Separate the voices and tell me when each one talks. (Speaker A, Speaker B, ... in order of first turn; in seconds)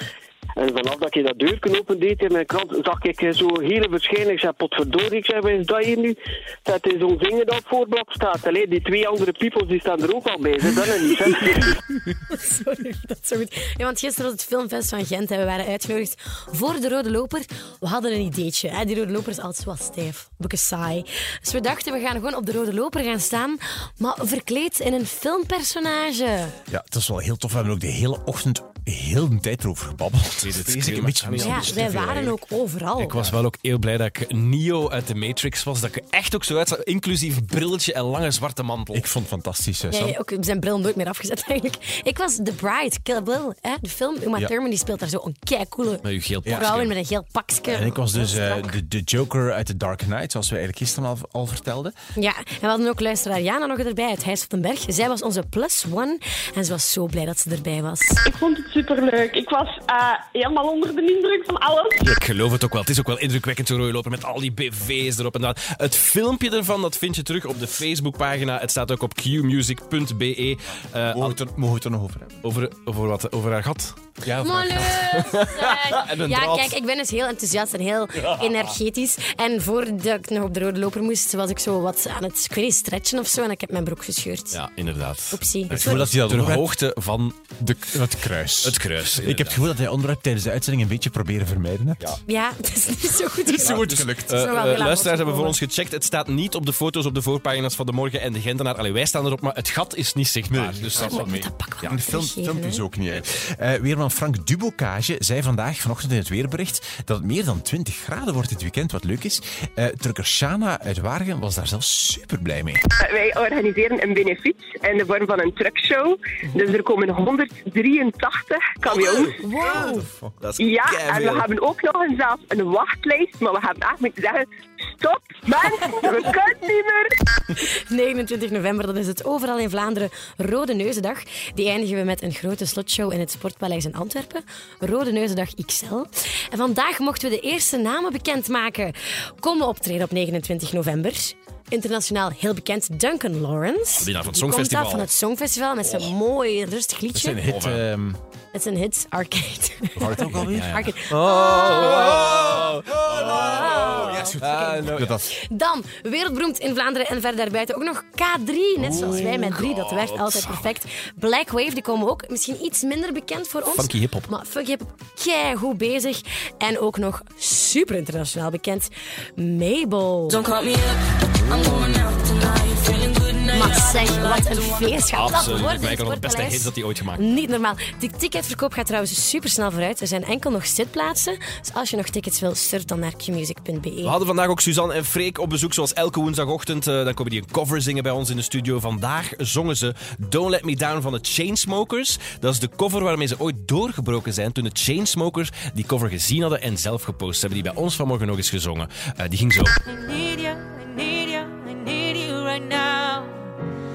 Speaker A: 0.6-11.8
Speaker B: 12.2-26.6, 31.4-33.2, 39.9-48.8, 52.1-58.2, 74.3-84.6, 85.3-86.0, 92.3-95.6, 101.0-102.8, 119.4-120.1, 127.5-147.4, 148.5-152.4, 153.2-170.5, 173.4-184.2
Speaker C: 26.7-32.4, 38.9-40.1, 46.5-46.8, 47.7-51.9, 71.1-72.4, 74.3-74.7, 85.7-86.7, 87.6-92.2, 93.5-94.5, 100.5-112.8, 119.9-120.2, 147.1-148.2, 150.0-150.9, 152.8-155.2, 158.8-159.3
Speaker D: 30.4-31.9, 33.0-39.0, 46.0-46.9, 62.0-71.4, 72.4-76.7, 84.5-87.4, 88.6-89.7, 93.5-102.0, 119.0-121.4, 143.9-145.1, 147.4-147.8, 150.2-155.2, 158.8-160.7, 163.7-164.3, 175.1-177.2, 184.0-200.0
Speaker E: 58.2-62.0, 170.4-173.5
Speaker F: 113.0-119.4, 120.6-127.1
Speaker G: 200.0-203.3